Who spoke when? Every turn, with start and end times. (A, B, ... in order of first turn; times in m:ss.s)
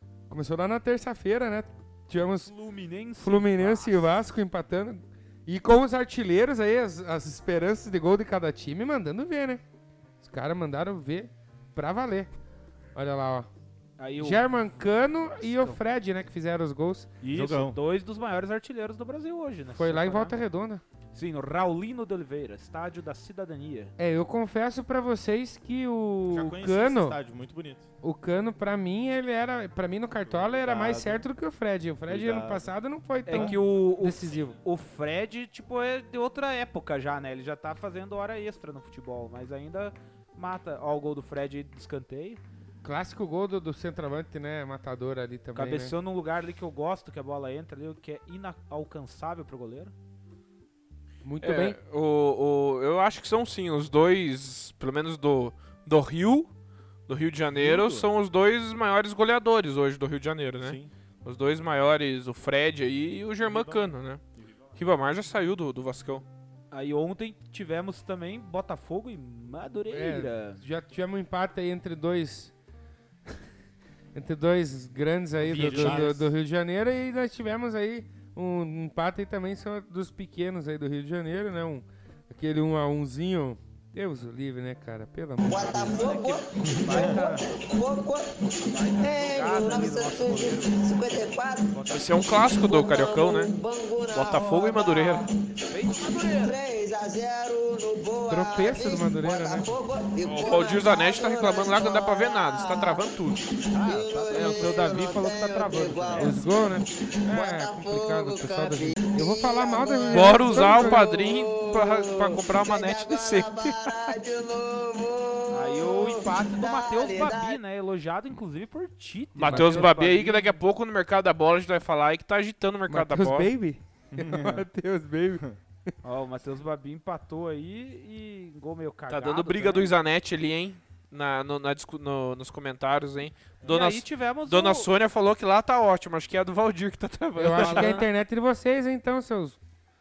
0:00.3-0:02.5 A
0:02.4-0:04.1 B
0:03.2-0:09.6 A
0:10.2-0:12.3 A
0:12.9-0:13.5 A
0:14.0-0:14.5 B
0:14.2-0:17.1 A
0:15.4-0:15.8 B
0:17.2-0:20.3 B
0:17.3-0:17.8 C
0:19.7-0:20.8 A
0:21.1-0:23.9 B
0:24.0-0:27.2 A
0:26.3-0:27.9 C
0:28.0-0:34.6 A
0:30.2-0:31.2 C
0:32.1-0:32.7 C
0:33.2-0:42.4 B
0:33.3-0:33.6 C
0:42.8-0:45.9 A
0:45.5-0:49.9 B
0:51.2-0:51.8 A
0:51.4-0:56.5 D
0:57.1-1:04.2 D
0:57.5-0:58.1 C
1:00.6-1:00.9 C
1:03.4-1:04.8 C
1:04.8-1:06.2 D
1:06.7-1:10.6 B
1:09.9-1:12.5 A
1:14.1-1:26.1 A
1:15.4-1:16.3 C
1:25.4-1:35.5 E
1:25.5-1:27.4 B
1:26.7-1:27.1 C
1:28.7-1:30.8 B
1:31.7-1:32.3 B
1:31.9-1:33.5 D
1:34.1-1:35.2 D
1:35.6-1:36.6 B
1:36.1-1:43.1 E
1:38.3-1:39.7 A
1:40.2-1:43.4 D
1:43.6-1:57.6 E
1:43.8-1:46.4 B
1:43.8-1:44.5 C
1:46.2-1:51.1 A
1:50.1-1:54.1 D
1:55.5-2:00.6 B
1:59.4-2:03.5 D
1:59.5-1:59.9 A
2:02.9-2:05.4 A
2:04.1-2:04.6 C
2:06.0-2:09.9 B
2:09.1-2:18.0 D
2:13.6-2:14.9 B
2:17.4-2:19.6 A
2:17.5-2:18.1 B